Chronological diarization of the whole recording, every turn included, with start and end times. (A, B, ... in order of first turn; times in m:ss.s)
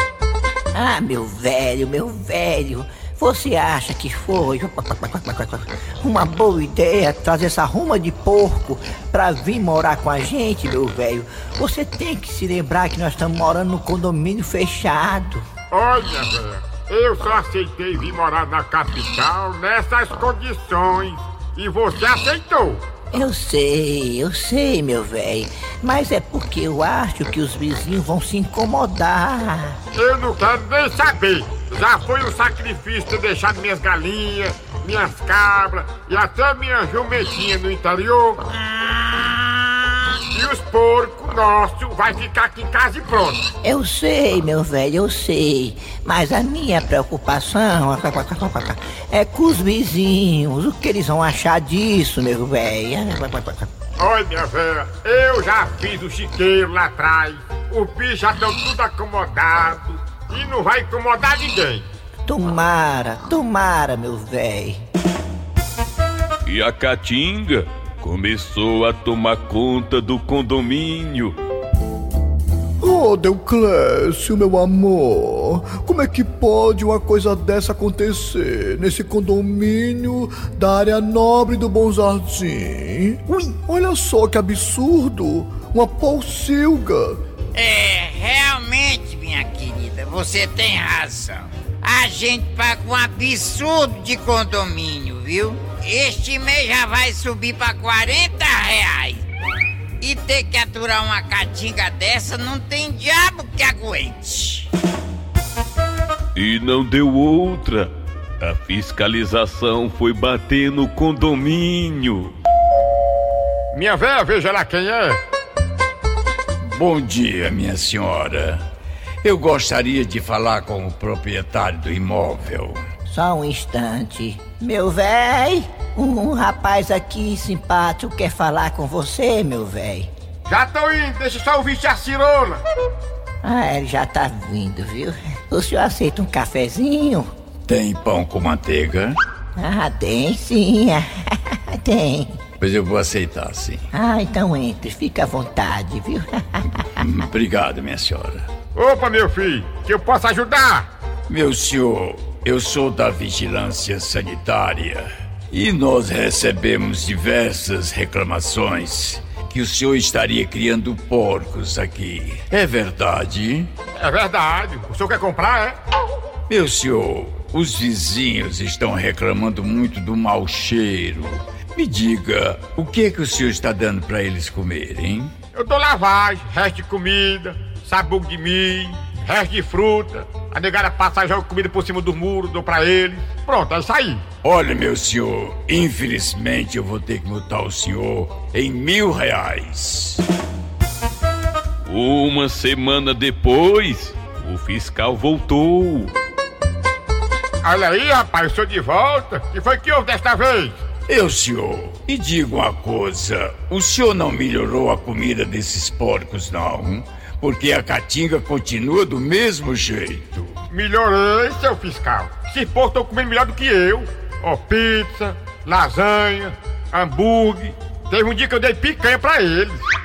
0:00.7-0:15.4 A
0:15.7-0:22.8 B
0:23.1-0:29.8 A
0:29.9-0:38.5 B
0:40.3-0:43.4 B
0:43.6-0:53.7 A
0:54.0-1:01.8 B
1:02.2-1:04.8 A
1:06.4-1:11.3 C
1:12.8-1:27.2 D
1:27.5-1:39.2 E
1:40.0-1:44.7 E
1:46.3-1:52.3 C
1:53.7-1:55.2 B
1:56.6-1:58.6 F
1:59.2-2:02.8 F
2:03.1-2:10.1 A
2:10.5-2:12.6 B
2:13.4-2:17.3 A
2:17.7-2:19.2 F
2:19.6-2:22.4 A
2:22.6-2:23.8 F
2:23.9-2:26.6 A
2:27.0-2:28.4 F
2:28.7-2:30.9 B
2:31.3-2:43.7 F
2:44.0-2:45.8 B
2:46.5-2:55.3 F
2:55.5-3:04.2 B
3:04.4-3:10.2 F
3:11.8-3:16.1 C
3:17.6-3:20.8 B
3:21.1-3:30.6 F
3:30.7-3:39.8 B